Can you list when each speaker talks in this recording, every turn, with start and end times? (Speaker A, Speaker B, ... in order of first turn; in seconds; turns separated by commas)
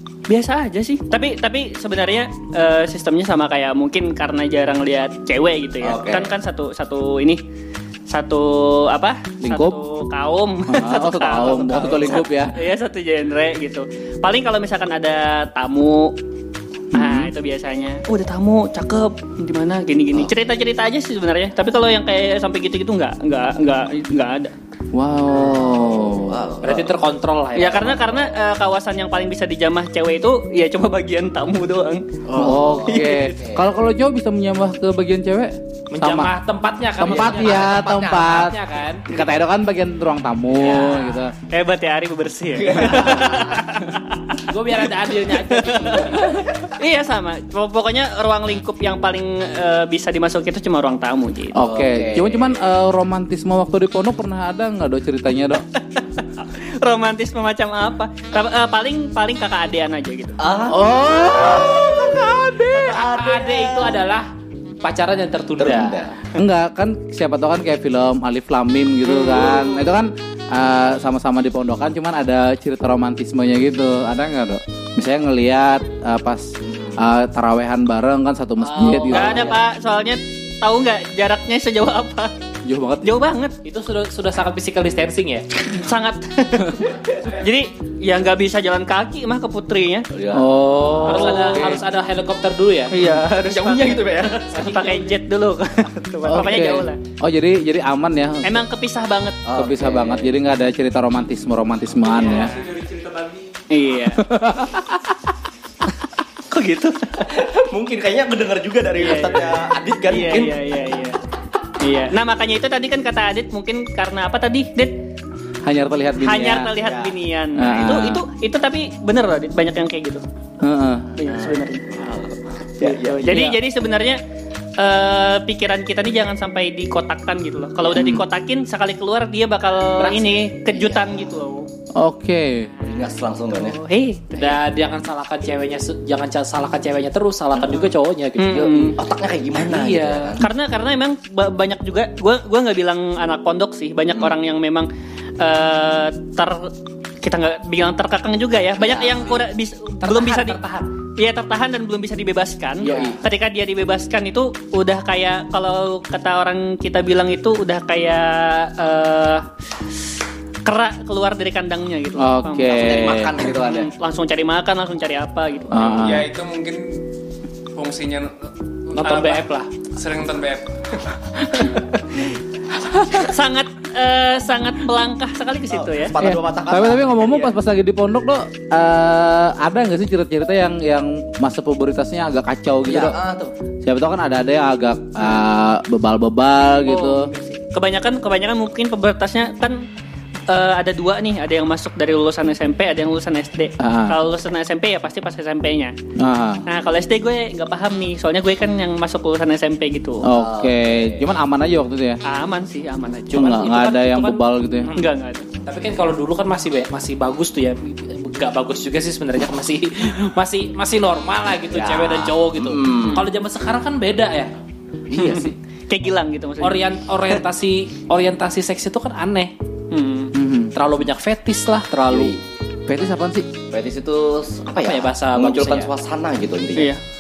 Speaker A: 0.3-7.4, Speaker B: 5.8-6.3, Speaker A: 8.1-16.1, Speaker C: 9.4-9.8, Speaker C: 10.7-12.6, Speaker B: 11.4-12.2, Speaker C: 16.9-17.3, Speaker A: 16.9-24.5, Speaker C: 24.9-26.4, Speaker B: 25.5-26.9, Speaker D: 26.6-27.9, Speaker A: 27.6-32.0, Speaker B: 27.7-28.3, Speaker B: 32.2-33.7, Speaker C: 32.4-36.3, Speaker D: 35.9-39.0, Speaker C: 37.0-41.3, Speaker B: 37.0-38.5, Speaker D: 40.5-41.1, Speaker A: 40.7-44.5, Speaker B: 42.5-43.7, Speaker D: 44.5-46.4, Speaker A: 45.3-51.6, Speaker C: 51.5-55.7, Speaker B: 51.6-52.7, Speaker A: 56.0-60.4, Speaker B: 60.4-64.0, Speaker C: 60.7-63.0, Speaker D: 62.9-64.3, Speaker D: 64.8-66.1, Speaker B: 65.6-66.3, Speaker C: 66.3-79.6, Speaker A: 69.1-69.7, Speaker B: 76.7-77.0, Speaker D: 78.6-79.5, Speaker A: 79.1-82.3, Speaker C: 82.7-83.2, Speaker A: 83.0-83.5, Speaker D: 83.6-85.5, Speaker A: 85.7-90.1, Speaker B: 90.1-90.5, Speaker C: 90.3-91.8, Speaker A: 91.0-91.7, Speaker D: 91.0-92.9, Speaker A: 92.9-94.0, Speaker B: 93.1-94.4, Speaker D: 94.3-95.2, Speaker A: 94.6-97.0, Speaker C: 96.3-98.6, Speaker A: 98.4-99.4, Speaker B: 99.5-100.3, Speaker C: 99.6-102.5, Speaker E: 102.1-103.6, Speaker A: 103.7-104.2, Speaker C: 104.2-105.1, Speaker A: 106.5-107.2, Speaker B: 107.2-110.5, Speaker A: 109.0-109.5, Speaker A: 110.1-111.2, Speaker A: 111.8-114.9, Speaker C: 115.7-116.7, Speaker A: 116.2-120.2, Speaker B: 116.8-117.1, Speaker C: 117.6-118.2, Speaker C: 120.6-121.1, Speaker A: 121.2-121.9, Speaker B: 121.3-123.2, Speaker A: 122.8-124.2, Speaker C: 123.2-123.6, Speaker A: 124.8-131.7, Speaker B: 127.9-128.2, Speaker D: 130.0-130.4, Speaker B: 130.8-131.2, Speaker C: 132.0-132.7, Speaker B: 132.8-133.8, Speaker A: 133.5-134.6, Speaker D: 134.3-139.0, Speaker B: 137.6-137.9, Speaker A: 138.4-139.0, Speaker B: 138.9-140.5, Speaker D: 139.6-140.3, Speaker A: 140.4-150.6, Speaker B: 148.8-149.4, Speaker D: 150.0-150.9, Speaker A: 151.2-159.5, Speaker B: 152.8-153.2, Speaker C: 152.9-153.1, Speaker A: 160.7-165.9, Speaker C: 162.2-163.4, Speaker B: 162.7-163.9, Speaker C: 165.7-166.3, Speaker E: 166.0-167.0, Speaker E: 167.8-170.7, Speaker D: 168.9-169.7, Speaker A: 171.6-172.2, Speaker A: 173.2-176.2, Speaker B: 175.7-177.5, Speaker C: 176.2-183.2, Speaker B: 182.9-183.5, Speaker C: 183.8-187.3, Speaker A: 186.8-189.8, Speaker A: 190.5-195.9, Speaker C: 193.8-194.2, Speaker C: 196.2-196.6, Speaker A: 196.7-200.3, Speaker C: 200.2-202.2, Speaker B: 200.3-201.3, Speaker A: 202.2-205.5, Speaker C: 203.3-204.9, Speaker D: 203.4-203.9, Speaker D: 205.7-214.5, Speaker B: 211.6-213.3, Speaker B: 215.1-215.6, Speaker A: 215.1-217.3, Speaker D: 216.6-219.5, Speaker A: 219.9-220.3, Speaker C: 220.3-220.7, Speaker D: 220.7-222.3, Speaker B: 222.1-222.4, Speaker C: 222.9-223.5, Speaker B: 223.7-226.9, Speaker D: 224.8-225.9